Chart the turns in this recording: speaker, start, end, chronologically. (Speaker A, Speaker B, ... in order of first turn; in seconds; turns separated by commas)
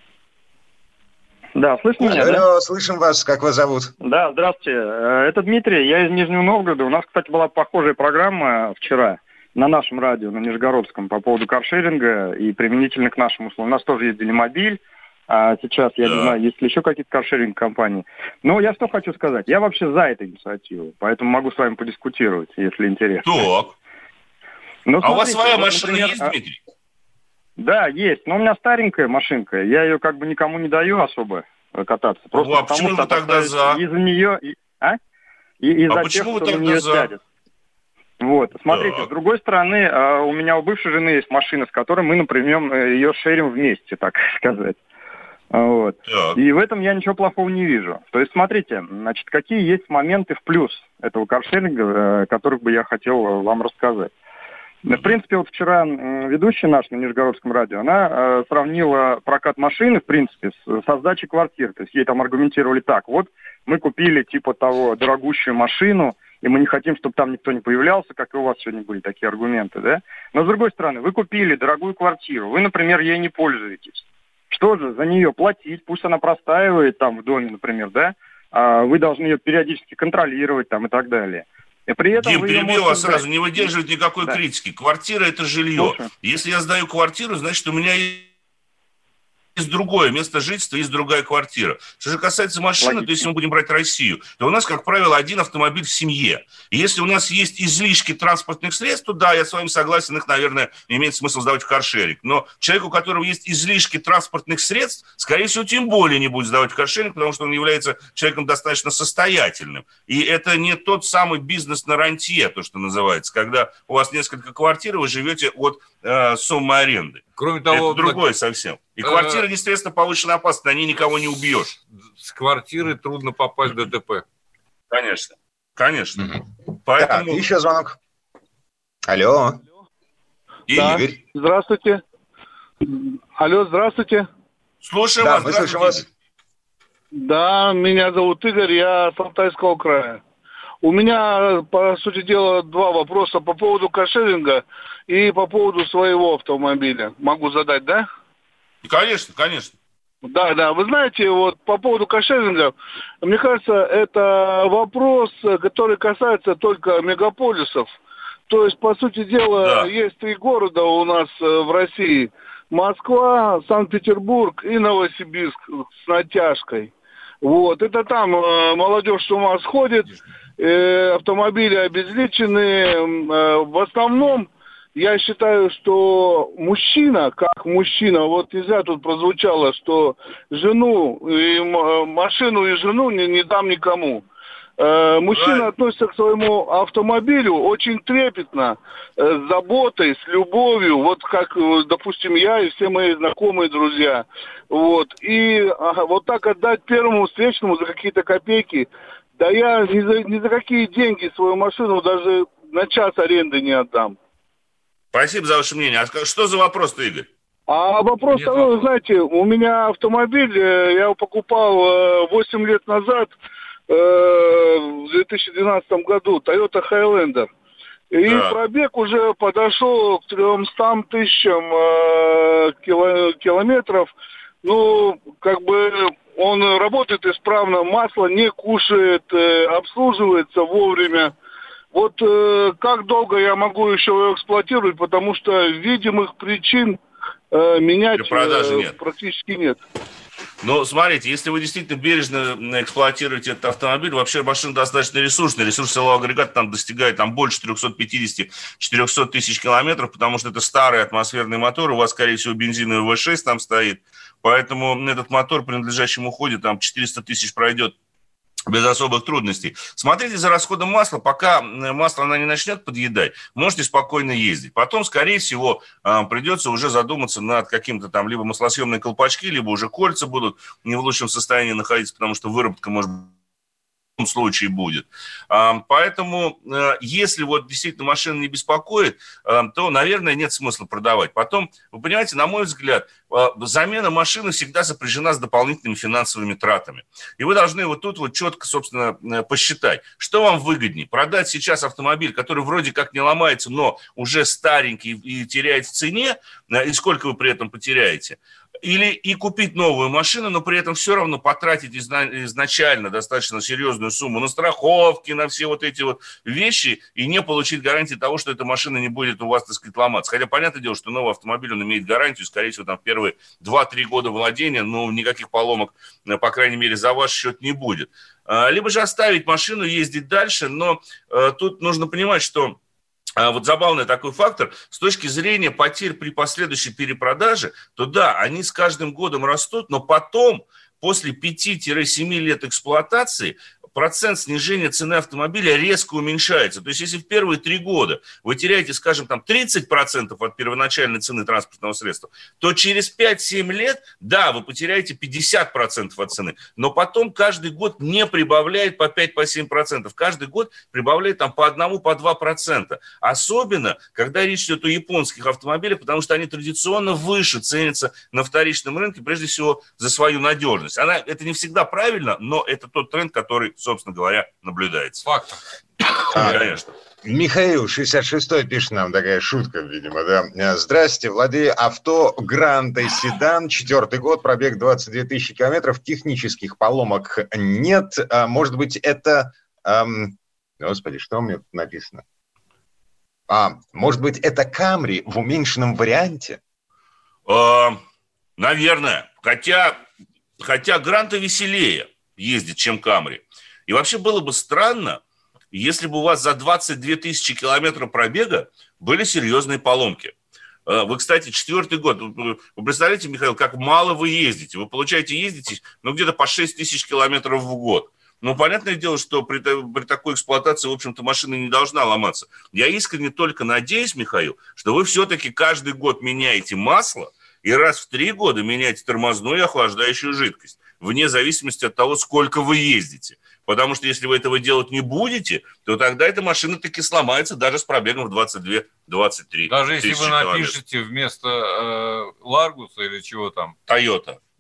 Speaker A: 1.6-2.5, Speaker B: 2.0-3.9, Speaker A: 4.0-23.5, Speaker C: 16.0-16.4, Speaker C: 23.2-23.7, Speaker A: 24.9-26.3, Speaker C: 25.0-26.6, Speaker A: 27.6-35.0, Speaker C: 32.3-33.8, Speaker A: 35.6-37.2, Speaker C: 35.9-37.1, Speaker A: 38.2-44.8, Speaker C: 38.7-39.1, Speaker A: 45.5-54.1, Speaker C: 46.1-46.4, Speaker A: 54.8-83.7, Speaker C: 82.1-88.3, Speaker A: 85.8-86.1, Speaker C: 89.5-121.8, Speaker A: 92.8-93.3, Speaker D: 117.3-118.2, Speaker D: 119.0-119.4, Speaker D: 122.1-124.2, Speaker C: 124.9-126.3, Speaker C: 126.8-127.4, Speaker B: 127.0-128.0, Speaker B: 129.1-129.6, Speaker C: 130.7-131.0, Speaker B: 130.7-131.2, Speaker E: 130.7-132.0, Speaker E: 132.8-134.2, Speaker C: 134.8-136.0, Speaker B: 135.2-136.0, Speaker E: 137.1-140.2, Speaker E: 140.8-148.1, Speaker C: 148.8-149.7, Speaker E: 150.3-157.9, Speaker E: 158.5-184.2, Speaker C: 159.6-159.9, Speaker E: 184.8-204.2, Speaker C: 185.3-185.7, Speaker C: 205.1-207.3, Speaker E: 207.7-213.3, Speaker D: 208.3-208.8, Speaker E: 213.9-217.5, Speaker E: 218.1-224.1, Speaker C: 218.2-218.5, Speaker E: 224.6-231.3, Speaker E: 231.9-237.0, Speaker E: 237.5-239.8, Speaker C: 238.1-238.9, Speaker C: 240.6-257.9, Speaker C: 258.7-273.3, Speaker C: 274.2-322.8, Speaker C: 323.4-365.2, Speaker D: 365.2-365.6, Speaker C: 366.1-366.9, Speaker B: 366.3-366.7, Speaker B: 367.2-382.2, Speaker B: 383.5-386.6, Speaker C: 387.5-388.0, Speaker C: 388.6-390.0, Speaker C: 390.6-400.3, Speaker C: 400.9-430.8, Speaker D: 429.7-433.8, Speaker C: 433.9-434.4